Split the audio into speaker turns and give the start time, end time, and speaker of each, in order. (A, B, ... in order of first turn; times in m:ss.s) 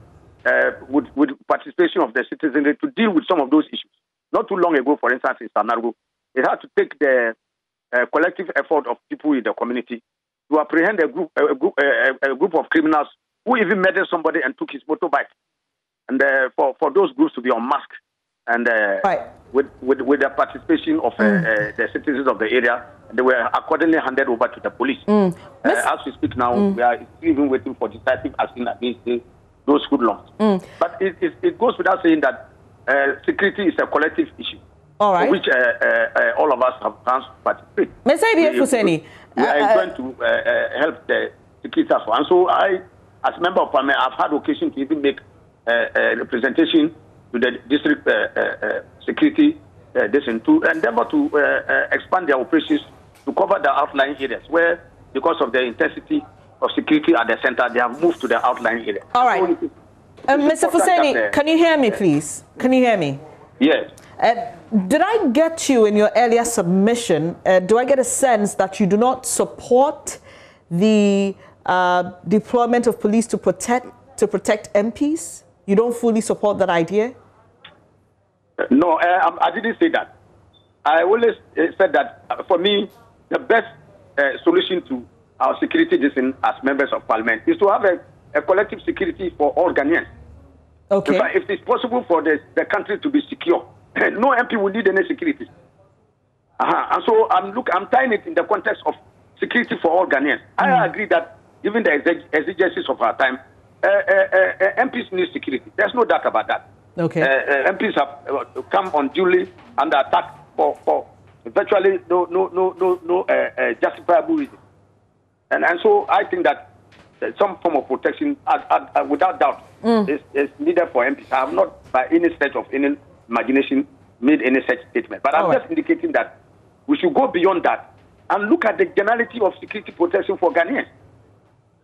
0:00.5-0:07.4 A
0:07.9-0:15.3 A
0:16.1-0:17.9 A
0:18.5-0:25.1 A
0:25.1-0:25.8 B
0:25.6-0:30.3 A
0:30.4-0:30.7 B
0:30.8-0:34.6 A
0:35.0-0:35.4 B
0:35.2-0:59.7 A
0:38.0-0:39.9 B
0:59.1-0:59.5 B
1:00.3-1:03.2 B
1:00.3-1:01.3 A
1:03.6-1:03.9 A
1:04.2-1:17.2 B
1:18.6-1:20.1 A
1:20.8-1:30.1 A
1:30.9-1:31.3 B
1:31.0-1:35.5 A
1:36.6-1:46.6 A
1:40.6-1:40.9 B
1:47.0-1:47.3 B
1:47.2-1:54.6 A
1:55.5-1:56.6 A
1:57.2-2:06.3 A
1:59.8-2:00.1 B
2:06.9-2:10.9 A